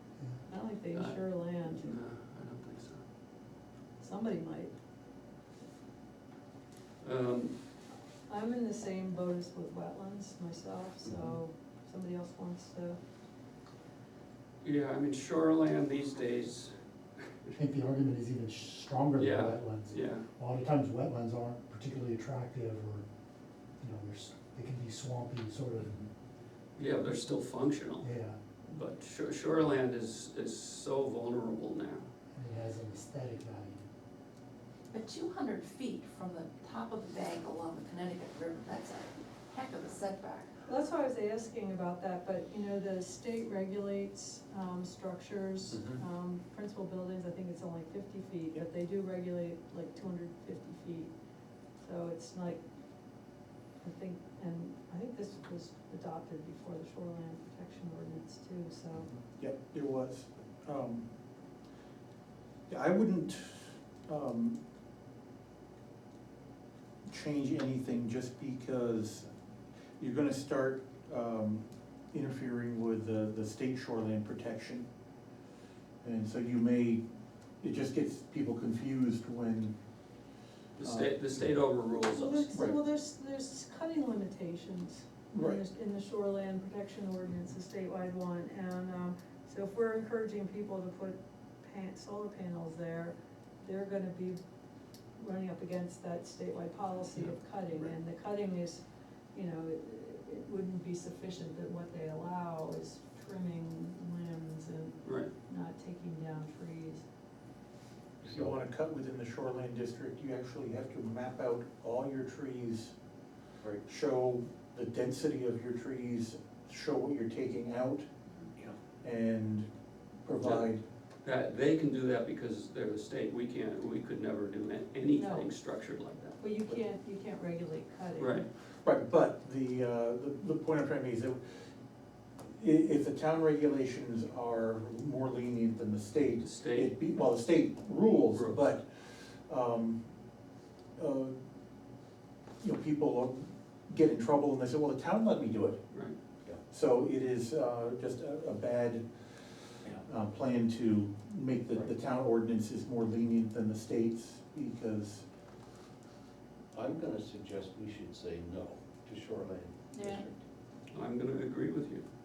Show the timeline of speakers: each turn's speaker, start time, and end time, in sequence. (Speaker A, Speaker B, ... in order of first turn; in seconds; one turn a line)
Speaker A: 0.5-1.9
Speaker B: 0.9-3.0
Speaker A: 4.0-4.7
Speaker B: 7.0-7.5
Speaker A: 8.3-13.0
Speaker B: 14.6-17.5
Speaker C: 17.6-23.0
Speaker B: 19.2-20.2
Speaker C: 23.8-26.0
Speaker B: 26.8-28.1
Speaker C: 28.0-28.4
Speaker B: 28.6-32.0
Speaker C: 32.3-33.9
Speaker D: 34.9-40.5
Speaker A: 40.6-51.1
Speaker A: 51.8-52.6
Speaker A: 53.8-59.1
Speaker E: 59.1-61.1
Speaker E: 62.7-64.6
Speaker E: 67.1-69.3
Speaker E: 70.0-74.9
Speaker E: 76.0-77.0
Speaker E: 77.6-79.7
Speaker B: 80.8-82.6
Speaker E: 80.8-81.1
Speaker A: 82.1-94.4
Speaker E: 85.3-85.6
Speaker A: 95.2-107.0
Speaker B: 105.0-105.3
Speaker E: 108.2-112.9
Speaker F: 108.2-108.6
Speaker E: 113.8-118.1
Speaker E: 119.0-119.7
Speaker E: 120.2-120.8
Speaker B: 120.4-120.7
Speaker B: 121.2-126.4
Speaker A: 125.1-125.5
Speaker A: 126.4-128.4
Speaker B: 128.2-128.5
Speaker E: 128.8-131.4
Speaker E: 132.5-140.0
Speaker B: 136.4-137.0
Speaker B: 138.3-138.8
Speaker E: 141.0-141.3
Speaker E: 142.6-145.8
Speaker E: 146.7-155.2
Speaker F: 156.7-160.4
Speaker D: 159.9-160.2
Speaker B: 160.9-162.0